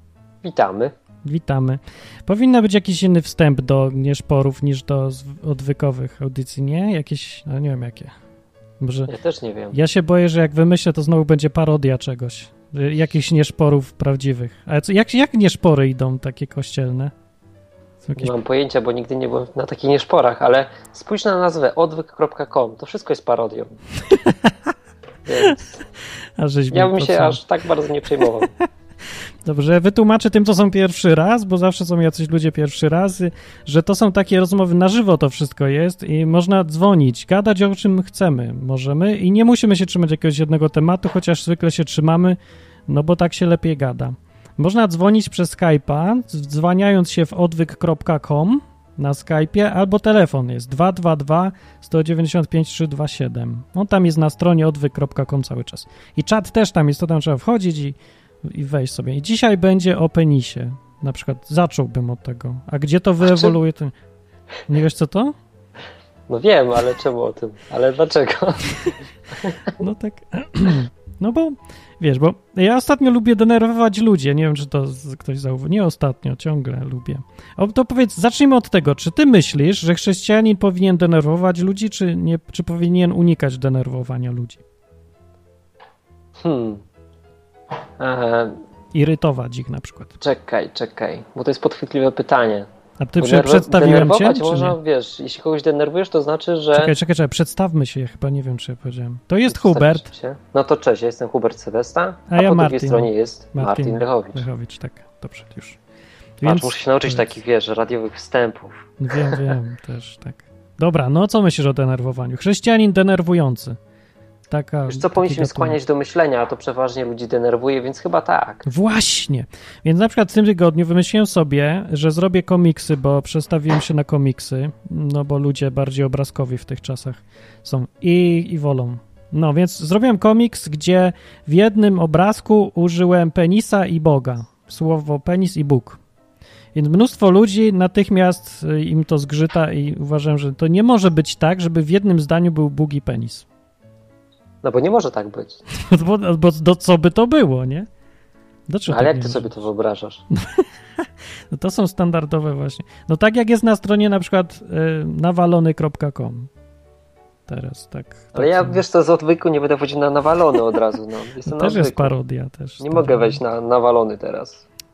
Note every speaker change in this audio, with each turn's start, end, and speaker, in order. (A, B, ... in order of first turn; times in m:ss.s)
0:00.4-0:00.9 A
0:01.2-0:08.1 B
0:08.8-0:09.1 B
0:09.1-0:09.8 A
0:09.7-0:17.1 B
0:18.0-0:18.3 B
0:18.2-0:23.7 A
0:24.1-0:24.5 B
0:25.2-0:25.8 A
0:26.4-0:27.4 B
0:26.7-0:28.5 A
0:28.2-0:28.6 B
0:29.4-1:03.9 B
1:03.2-1:03.5 A
1:04.7-1:05.3 B
1:06.3-1:08.8 A
1:09.8-1:24.6 B
1:26.4-1:26.8 A
1:28.0-1:28.6 A
1:28.9-1:30.1 B
1:30.2-1:32.7 A
1:33.0-1:34.8 B
1:33.2-1:36.9 A
1:36.7-1:40.1 B
1:39.5-1:44.4 A
1:42.3-1:45.8 B
1:46.4-1:47.3 B
1:46.4-1:49.4 A
1:49.0-1:53.8 B
1:54.5-1:55.8 B
1:54.9-1:58.6 A
1:58.6-2:16.0 B
2:16.7-2:23.4 B
2:24.6-2:25.6 A
2:25.8-2:27.9 B
2:28.7-2:29.5 B
2:28.9-2:30.2 A
2:30.3-2:36.5 B
2:37.5-2:38.8 B
2:38.3-2:42.1 A
2:41.4-2:43.4 B
2:42.8-2:44.6 A